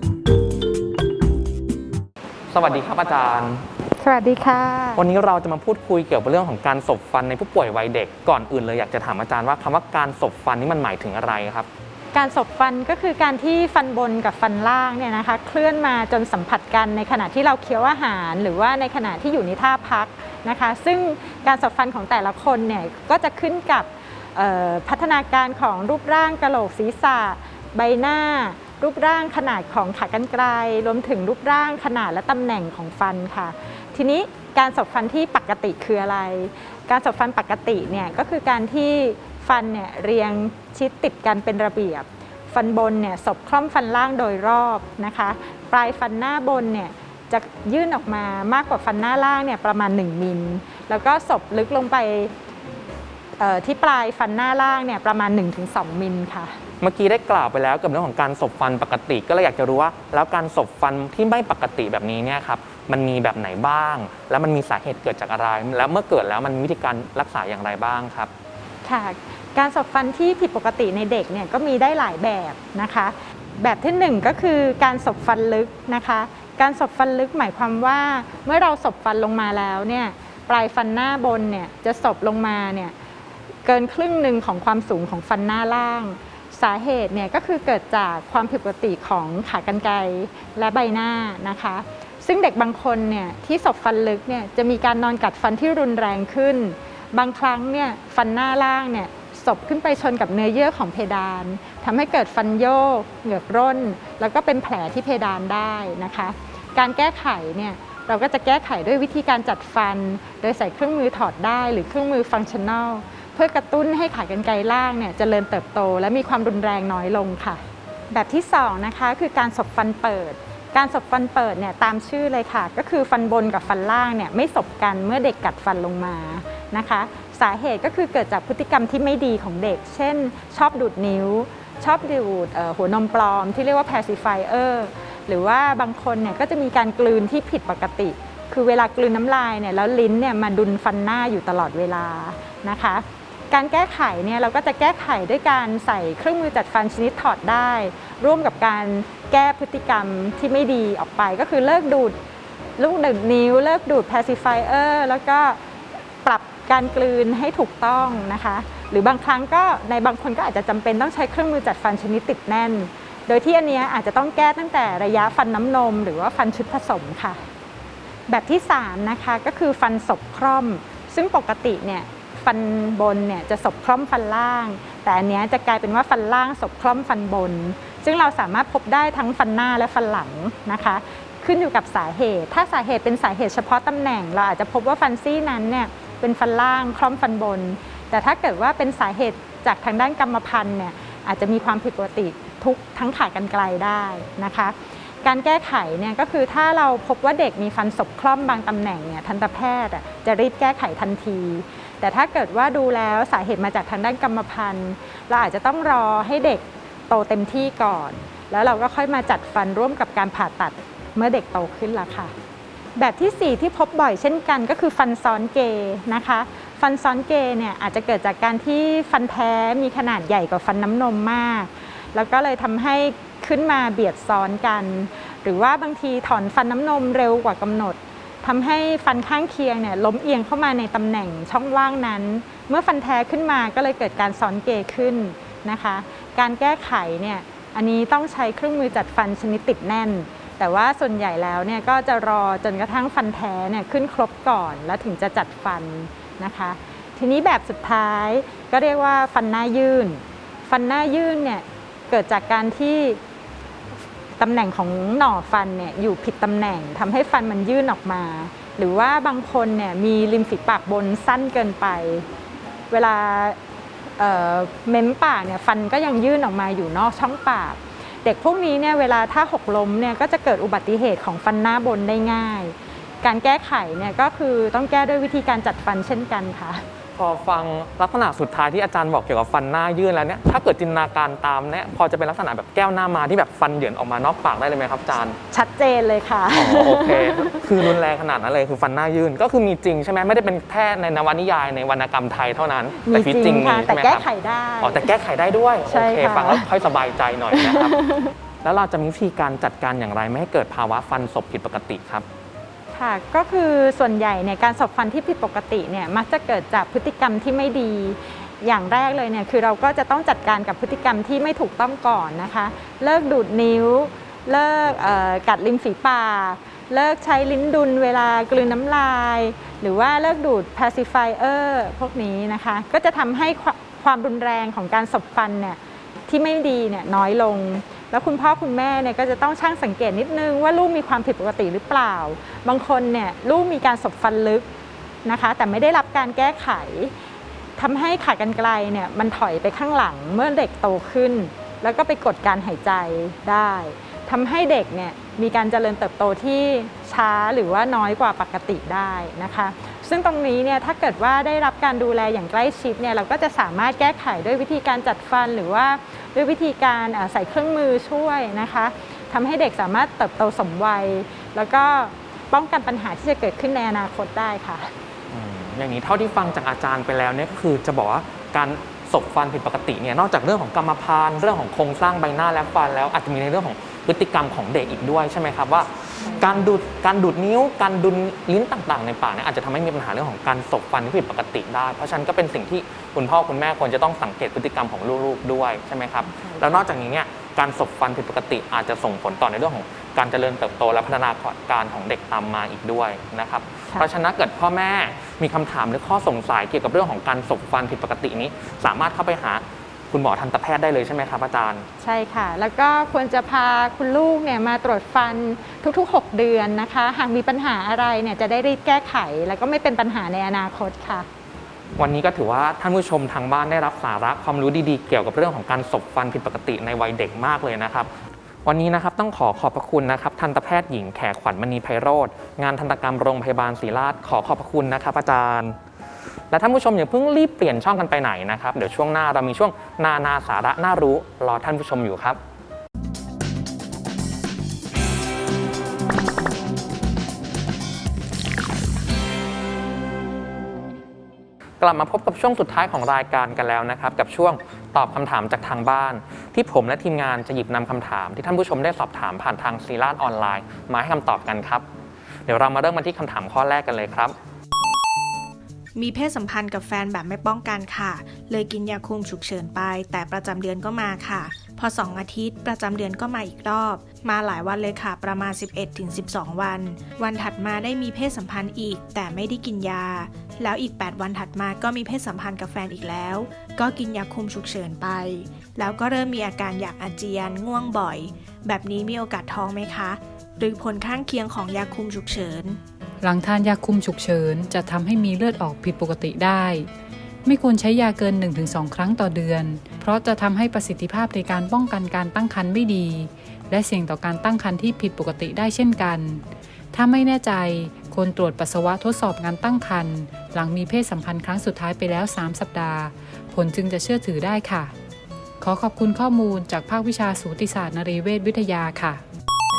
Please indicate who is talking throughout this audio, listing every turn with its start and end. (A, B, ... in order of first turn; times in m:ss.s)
0:02.5-0:03.7 A
0:04.0-0:05.0 B
0:05.0-0:11.7 A
0:12.1-0:52.3 B
0:53.4-0:56.5 B
0:56.8-1:08.3 A
1:08.8-1:22.9 B
1:23.6-2:32.2 B
2:32.8-2:35.6 B
2:36.2-2:47.4 B
2:48.3-3:32.3 B
3:33.0-4:13.2 B
4:14.4-4:22.2 B
4:22.9-4:23.6 B
4:24.2-4:36.8 B
4:37.2-4:45.4 A
4:45.5-4:47.6 B
4:46.5-4:54.2 A
4:53.1-4:55.1 B
4:54.8-4:58.0 A
4:55.9-4:56.7 B
4:57.5-4:58.3 B
4:58.6-5:02.2 A
5:02.9-5:34.7 B
5:35.2-5:37.1 B
5:37.8-6:04.9 B
6:05.3-6:41.9 A
6:16.2-6:16.6 B
6:26.3-6:26.9 B
6:42.0-6:51.3 B
6:52.0-6:58.1 A
6:58.6-7:05.8 A
7:06.5-7:12.4 A
7:21.8-7:31.8 A
7:32.5-7:34.4 A
7:36.0-8:02.8 C
8:03.2-8:06.9 D
8:07.4-8:24.9 D
8:25.6-8:29.2 D